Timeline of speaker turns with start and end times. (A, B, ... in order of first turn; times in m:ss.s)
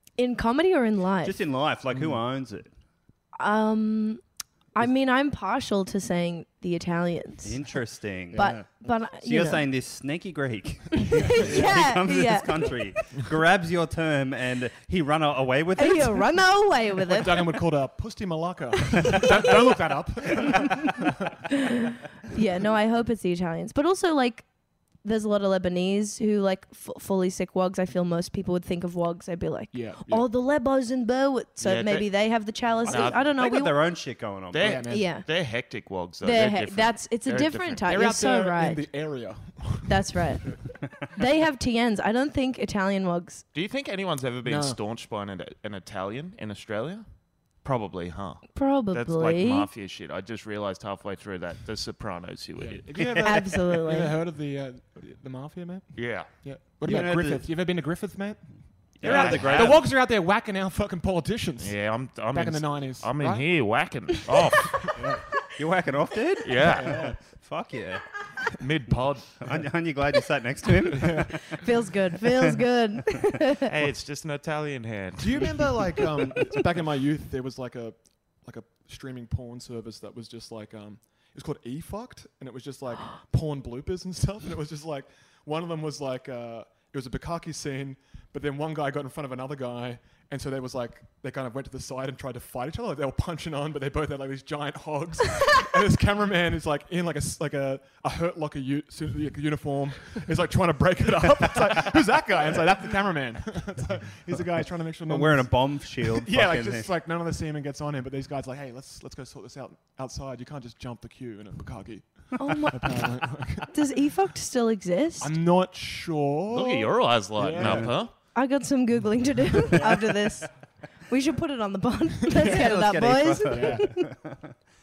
0:00.2-0:01.4 A
0:01.2-0:02.7 B
0:01.9-0:02.2 C
0:03.4-0:04.2 A
0:04.8-0:07.6 A
0:07.4-0:16.3 B
0:08.3-0:08.6 C
0:08.3-0:09.6 A
0:11.1-0:12.9 A
0:11.3-0:11.8 C
0:15.8-0:17.6 A
0:17.1-0:21.5 C
0:19.1-0:19.3 A
0:21.5-0:24.4 A
0:25.0-0:33.7 A
0:29.7-0:30.3 C
0:31.6-0:32.1 D
0:32.8-0:33.3 D
0:32.8-0:34.9 B
0:34.5-0:37.9 D
0:34.6-0:35.1 C
0:34.9-0:35.3 A
0:36.2-0:38.8 A
0:37.9-0:40.2 C
0:39.9-0:40.5 A
0:41.1-0:43.4 A
0:43.5-0:47.0 D
0:44.4-0:44.8 C
0:47.6-0:52.8 D
0:48.5-0:49.7 A
0:52.6-1:03.5 C
0:53.0-0:53.2 B
0:53.2-0:54.1 A
0:55.9-0:56.3 D
0:56.8-0:57.5 B
0:59.0-0:59.9 D
0:59.0-0:59.8 B
1:01.6-1:05.0 D
1:04.3-1:05.2 C
1:05.0-1:11.6 B
1:06.4-1:07.1 D
1:06.7-1:07.2 C
1:08.6-1:09.5 D
1:11.0-1:11.3 C
1:11.6-1:13.7 A
1:12.2-1:12.6 B
1:13.6-1:15.7 D
1:15.2-1:53.7 C
1:45.1-1:46.9 B
1:52.4-1:52.9 A
1:53.7-1:55.3 A
1:55.2-1:57.9 C
1:56.5-1:58.1 D
1:57.6-1:57.9 B
1:58.3-2:00.5 A
1:59.7-2:00.2 C
2:01.1-2:04.0 A
2:02.3-2:02.7 C
2:02.4-2:04.6 B
2:03.5-2:03.9 C